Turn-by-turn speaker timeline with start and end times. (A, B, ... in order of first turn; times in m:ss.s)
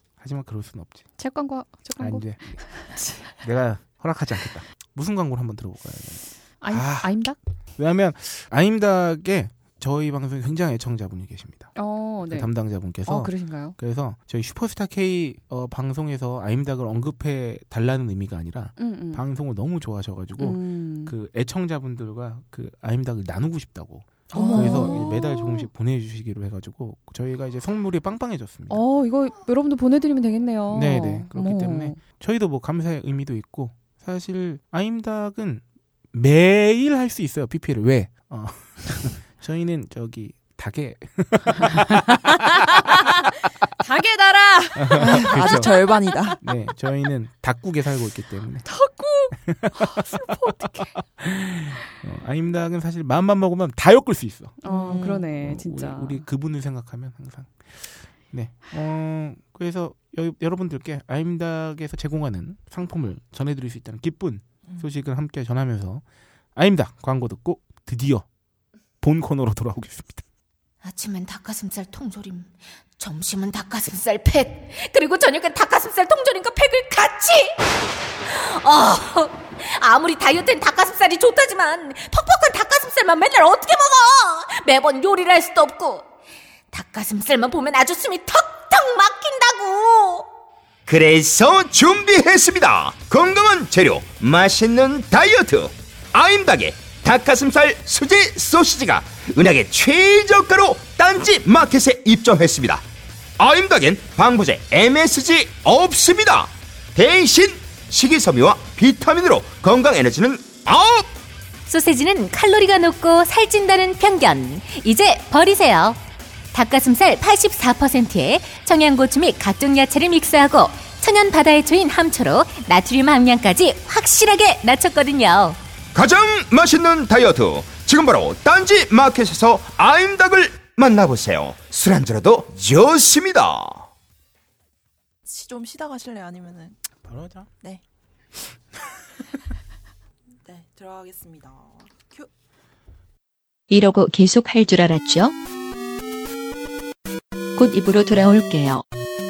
0:00.2-0:01.1 A
0:01.2-0:03.3 B
0:02.0-0:02.7 A
0:03.3-0:07.2 A
0:06.6-0:07.4 B
0:07.8-0:28.8 A
0:11.8-0:13.8 B
0:18.8-0:19.2 B
0:20.4-0:21.1 B
0:24.3-0:25.7 B
0:24.3-0:25.1 C
0:28.7-0:32.0 B
0:30.7-0:42.3 A
0:43.8-0:46.4 B
0:44.8-0:45.8 A
0:44.9-0:46.4 C
0:46.4-0:48.7 A
0:48.6-0:51.0 B
0:49.5-0:50.1 A
0:51.2-0:54.6 A
0:54.6-0:56.2 B
0:54.6-0:55.3 C
0:55.4-1:06.0 A
1:06.6-1:08.2 A
1:09.0-1:10.2 A
1:10.8-1:17.7 D
1:18.3-1:26.0 D
1:26.7-1:30.3 D
1:30.9-1:42.8 E
1:43.4-1:51.1 E
1:51.7-1:56.0 F
1:56.5-2:05.6 F
2:06.0-2:13.9 E
2:15.2-2:16.8 C
2:17.1-2:17.5 A
2:20.4-2:22.3 C
2:23.7-2:25.4 G
2:27.6-2:28.8 G